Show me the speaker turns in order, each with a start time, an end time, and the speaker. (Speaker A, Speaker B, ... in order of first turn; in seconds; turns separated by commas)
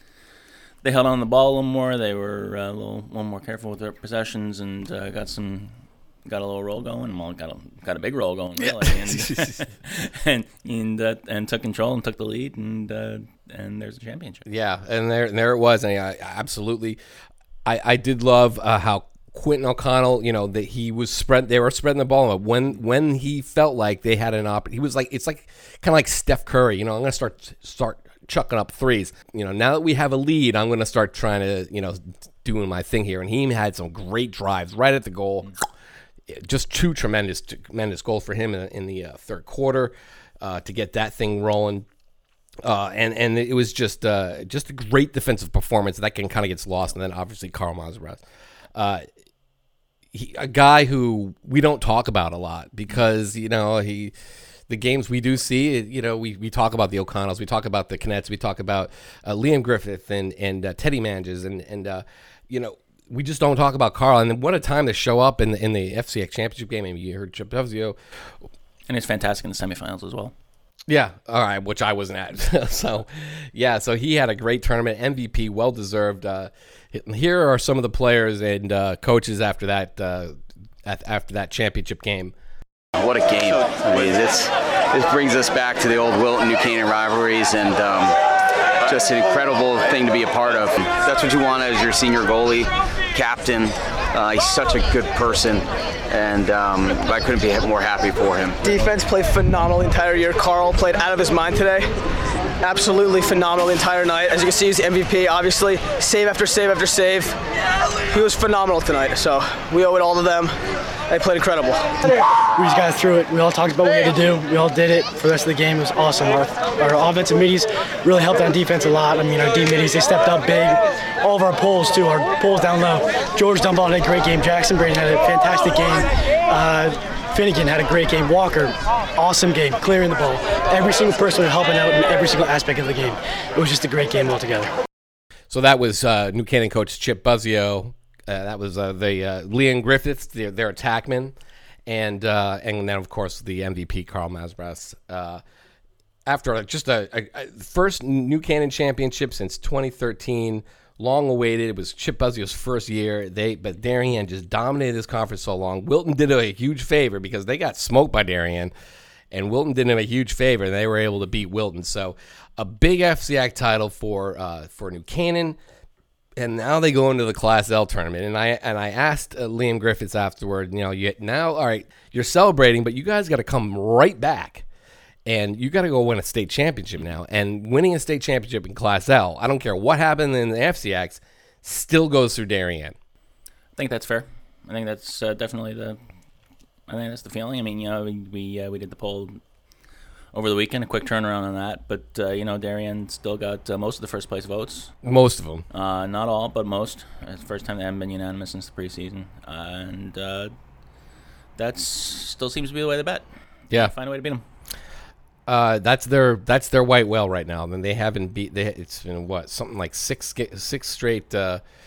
Speaker A: 0.8-14.4, Speaker B: 8.6-9.6, Speaker B: 14.5-17.0, Speaker B: 17.6-35.5, Speaker B: 36.3-41.9, Speaker B: 42.6-48.2, Speaker B: 48.8-49.1, Speaker B: 50.1-54.1, Speaker B: 54.7-68.0, Speaker A: 68.9-70.3, Speaker B: 70.9-82.3, Speaker C: 83.0-88.2, Speaker C: 88.8-98.6, Speaker D: 98.6-101.9, Speaker D: 102.6-107.4, Speaker D: 108.1-110.6, Speaker D: 111.1-111.9, Speaker E: 112.1-134.7, Speaker B: 135.5-145.4, Speaker B: 146.2-158.7, Speaker B: 159.3-165.6, Speaker B: 166.4-174.7, Speaker B: 175.2-183.0, Speaker A: 183.8-186.0, Speaker A: 186.9-189.4, Speaker A: 190.3-194.9, Speaker B: 195.0-195.6, Speaker A: 195.7-200.5, Speaker A: 201.6-204.4, Speaker B: 205.5-211.6